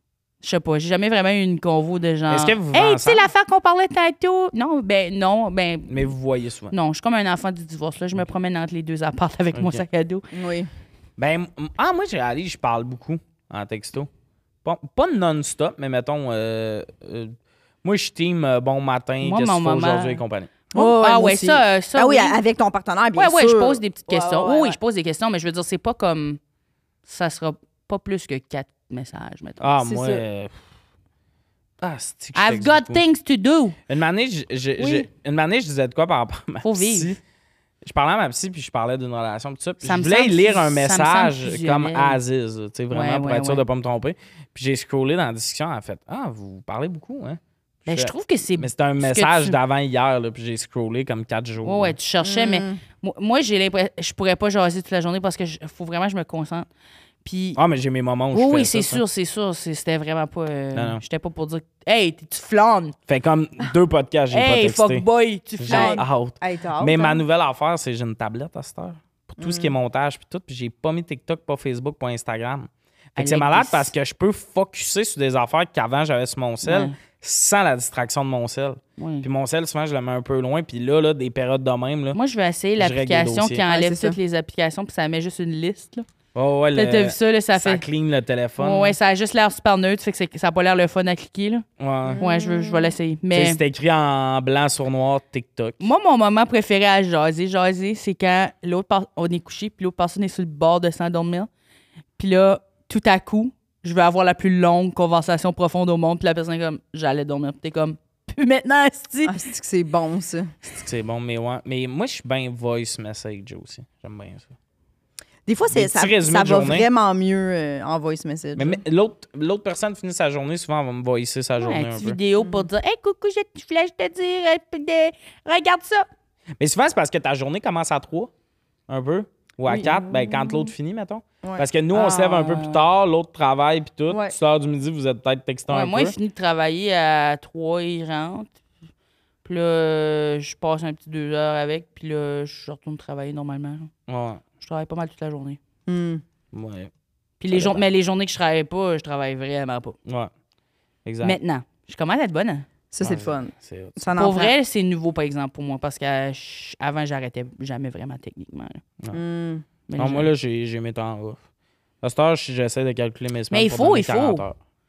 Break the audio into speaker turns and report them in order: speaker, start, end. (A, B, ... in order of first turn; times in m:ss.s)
0:00.4-0:06.1 A
0:02.3-0:03.3 B
0:05.9-0:06.7 B
0:06.7-0:10.2 A
0:09.5-0:09.8 B
0:10.3-0:10.7 C
0:11.2-0:14.1 B
0:14.6-0:20.5 B
0:19.2-0:22.4 A
0:20.7-0:24.8 C
0:23.1-0:26.4 A
0:27.0-0:29.7 A
0:29.6-0:30.5 B
0:29.8-0:30.2 C
0:31.8-0:33.0 B
0:32.3-0:33.8 A
0:33.9-0:37.2 B
0:34.8-0:35.0 C
0:36.6-0:37.2 A
0:37.8-0:51.9 B
0:39.8-0:42.2 A
0:42.9-0:43.6 A
0:47.9-0:49.6 A
0:51.6-0:56.7 A
0:52.2-0:52.8 C
0:57.2-0:57.6 A
0:57.6-0:59.0 B
0:58.3-1:02.9 A
1:00.7-1:01.0 B
1:03.1-1:05.0 B
1:04.3-1:06.0 A
1:05.6-1:22.2 B
1:05.7-1:07.2 C
1:09.4-1:09.7 C
1:13.2-1:13.9 A
1:16.6-1:16.9 A
1:19.0-1:19.3 A
1:22.1-1:26.0 A
1:22.8-1:23.6 B
1:23.7-1:24.2 C
1:26.3-1:29.0 B
1:26.7-1:27.8 A
1:28.6-1:31.6 A
1:31.8-1:32.2 B
1:32.0-1:32.9 C
1:32.2-1:33.6 A
1:33.3-1:35.9 B
1:35.8-1:41.5 A
1:42.2-1:49.4 A
1:49.2-1:50.5 C
1:50.7-1:54.5 B
1:55.4-1:58.8 C
1:55.7-1:56.9 B
1:58.6-2:02.2 B
2:01.6-2:06.1 A
2:02.4-2:02.6 C
2:06.6-2:08.3 B
2:08.9-2:16.1 B
2:09.7-2:10.7 C
2:11.9-2:12.8 A
2:14.1-2:14.3 C
2:15.7-2:18.5 A
2:19.4-2:23.9 A
2:24.1-2:24.4 B
2:24.6-2:25.6 A
2:25.9-2:26.2 C
2:26.5-2:26.9 B
2:27.4-2:30.0 A
2:27.5-2:27.8 B
2:30.0-2:30.3 B
2:31.0-2:31.4 B
2:31.2-2:32.6 A
2:32.9-2:34.5 C
2:33.0-2:34.1 B
2:34.2-2:38.8 A
2:39.1-2:39.6 C
2:39.9-2:40.3 A
2:40.0-2:41.4 B
2:42.0-2:44.6 B
2:43.5-2:44.4 A